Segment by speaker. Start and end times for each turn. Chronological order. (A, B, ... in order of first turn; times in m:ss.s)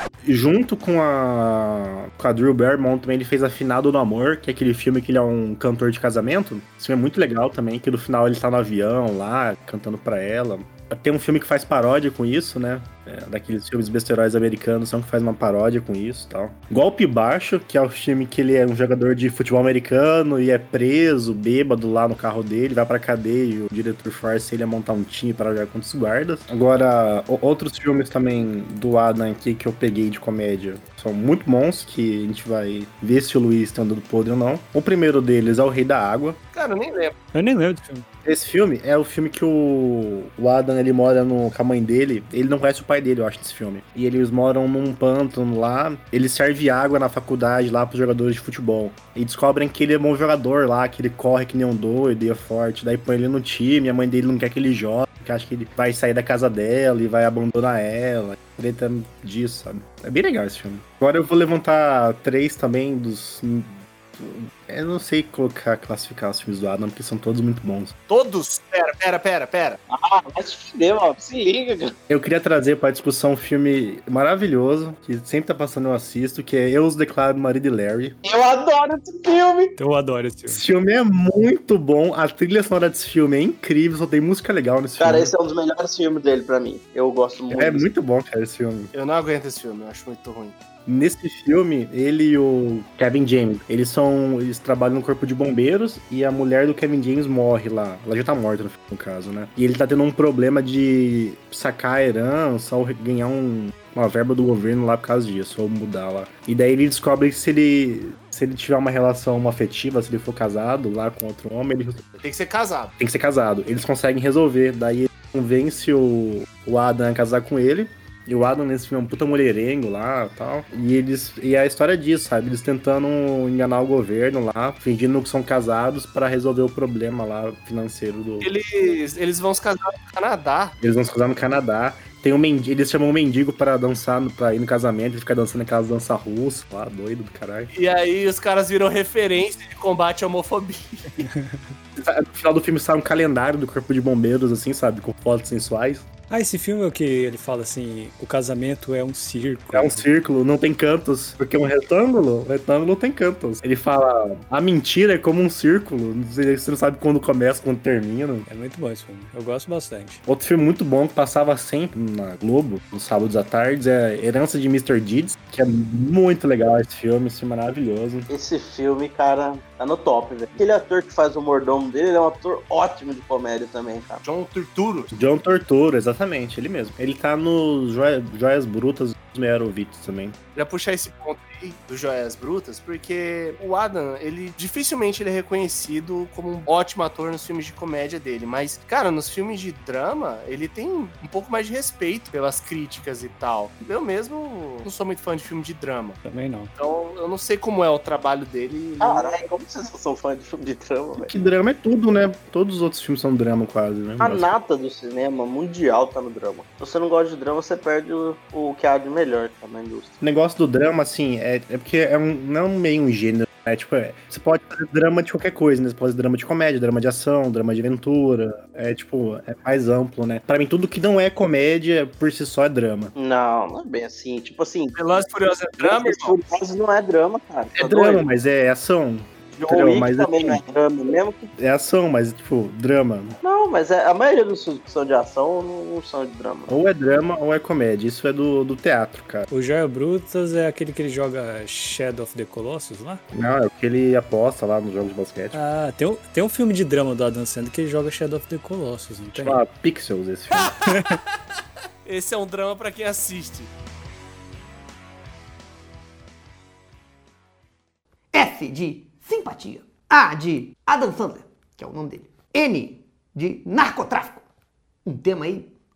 0:00.2-0:36.4 A
0:36.5-0:37.1 B
0:37.3-0:38.0 C
0:38.2-1:07.9 A
1:08.1-1:09.8 B
1:09.9-1:11.9 D
1:12.1-1:18.2 A
1:18.2-1:19.8 D
1:19.8-1:20.6 C
1:20.5-1:25.3 A
1:25.0-1:27.8 D
1:27.5-1:28.9 A
1:28.9-1:30.5 B
1:30.8-1:52.1 A
1:52.2-1:52.9 B
1:53.0-2:08.5 A
2:08.4-2:10.7 B
2:10.8-2:17.7 A
2:17.7-2:21.3 B
2:21.2-2:21.7 C
2:22.0-2:26.0 A
2:26.3-2:30.0 C
2:29.7-2:38.5 A
2:38.5-2:40.2 C
2:40.2-2:48.3 A
2:48.3-2:54.2 D
2:54.2-2:55.1 B
2:55.1-3:00.4 A
3:00.5-3:16.2 B
3:16.2-3:16.7 C
3:16.8-3:19.4 B
3:19.0-3:21.3 D
3:21.2-3:24.5 A
3:24.2-3:30.1 D
3:30.2-3:43.1 A
3:43.1-3:45.2 D
3:45.0-3:46.4 B
3:45.8-3:48.3 D
3:47.8-3:50.6 A
3:49.5-3:51.5 D
3:51.6-3:53.4 A
3:53.4-3:56.8 D
3:56.7-3:59.5 A
3:59.5-4:03.2 C
4:03.3-4:05.6 A
4:05.5-4:09.6 C
4:09.3-4:10.7 A
4:10.6-4:11.2 B
4:10.9-4:11.2 C
4:12.0-4:13.7 B
4:18.3-4:24.4 E
4:25.0-4:25.7 E